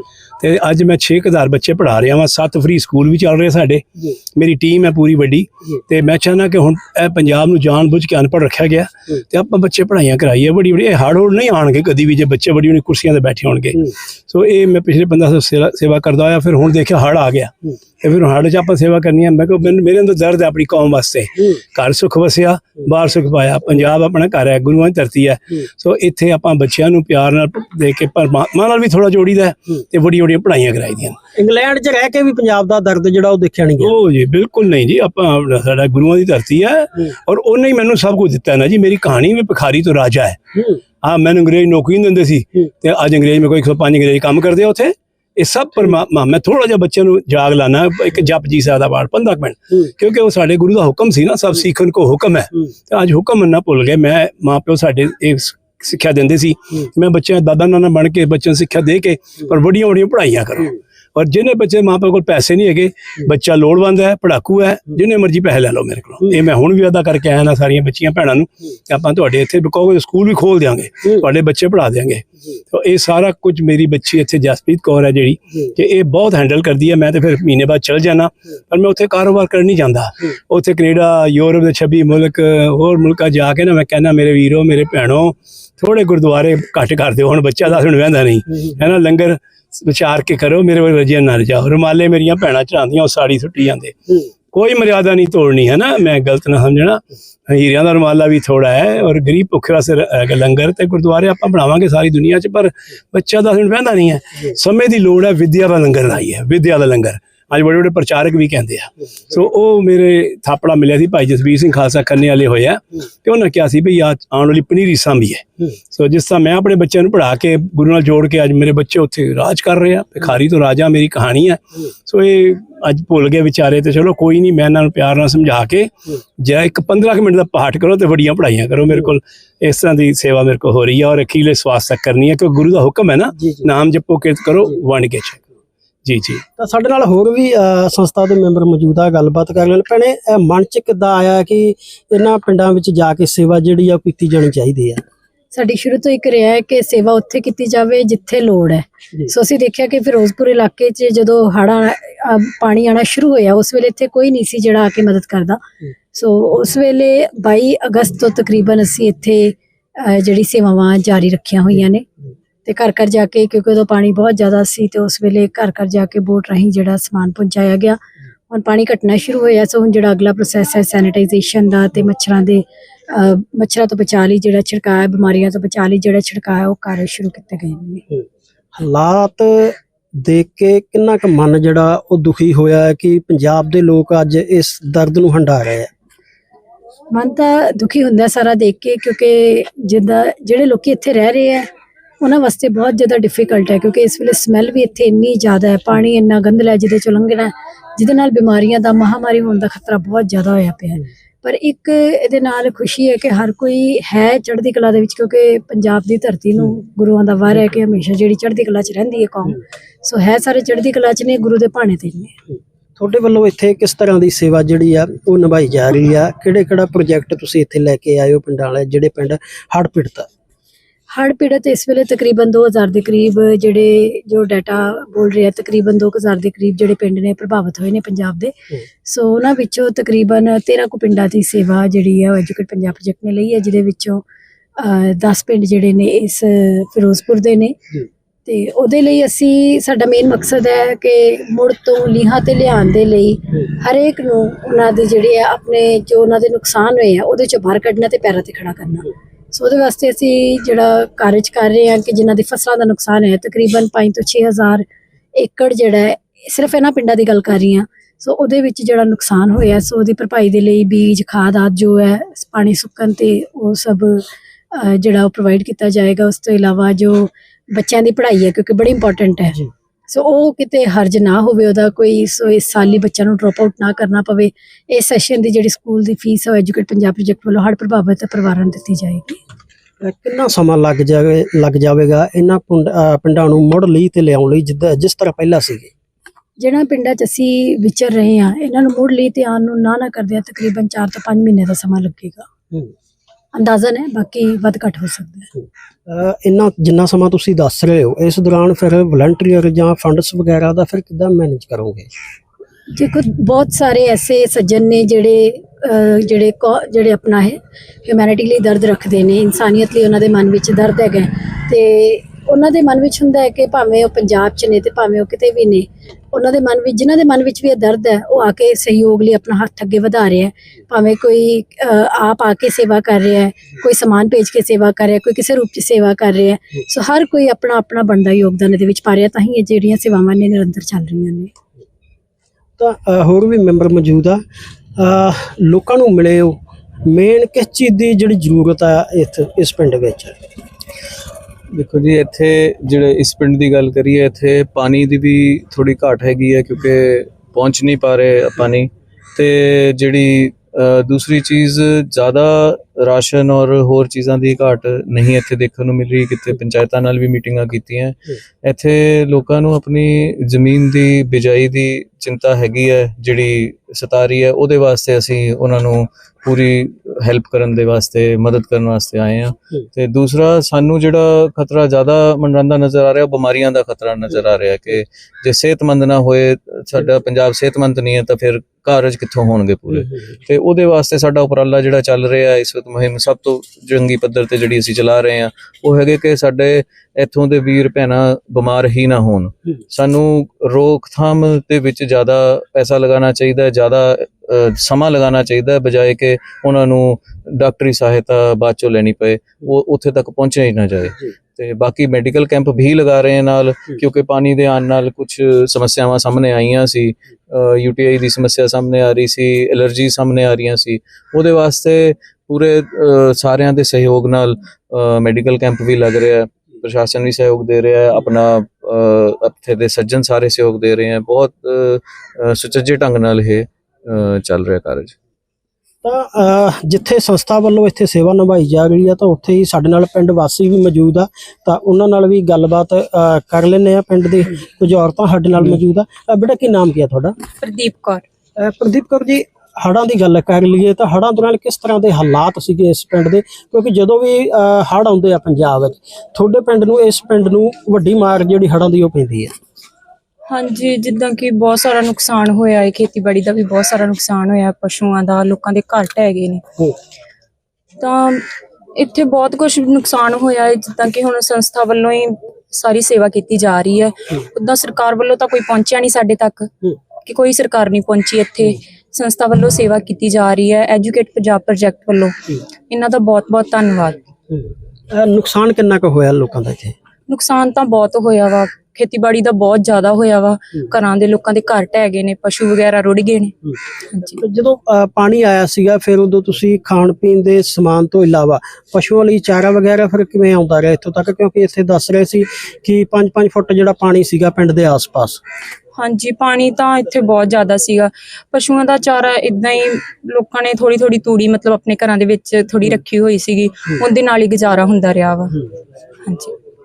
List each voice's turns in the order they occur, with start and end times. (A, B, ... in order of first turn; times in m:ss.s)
0:00.4-0:31.2 A
0:31.4-0:34.0 B
0:33.8-0:40.4 A
0:41.0-2:15.5 A
2:16.0-2:16.4 A
2:16.6-2:25.0 B
2:25.5-2:35.6 C
2:36.1-2:42.0 C
2:42.7-2:48.0 C
2:48.5-2:58.0 C
2:58.8-3:05.9 B
3:07.1-3:11.7 C
3:12.2-3:32.3 C
3:33.0-3:40.3 B
3:41.1-3:48.5 C
3:49.1-3:54.2 C
3:54.8-3:57.8 C
3:58.5-4:14.8 C
4:15.4-4:29.6 C
4:30.1-4:39.4 C
4:40.0-4:45.9 B
4:46.6-4:52.5 C
4:53.5-4:55.5 C
4:56.1-5:02.1 B
5:02.9-5:31.5 C
5:32.8-5:34.4 B
5:35.0-5:40.4 B
5:41.7-7:05.1 D
7:06.0-7:17.3 B
7:17.6-7:18.2 E
7:18.6-7:29.5 B
7:30.5-7:36.6 E
7:38.0-7:38.4 E
7:39.0-7:46.7 E
7:47.2-7:54.2 E
7:54.5-7:56.9 B
7:57.3-8:03.5 E
8:04.1-8:04.4 E
8:04.4-8:15.4 B
8:16.0-8:25.6 E
8:26.2-8:26.5 E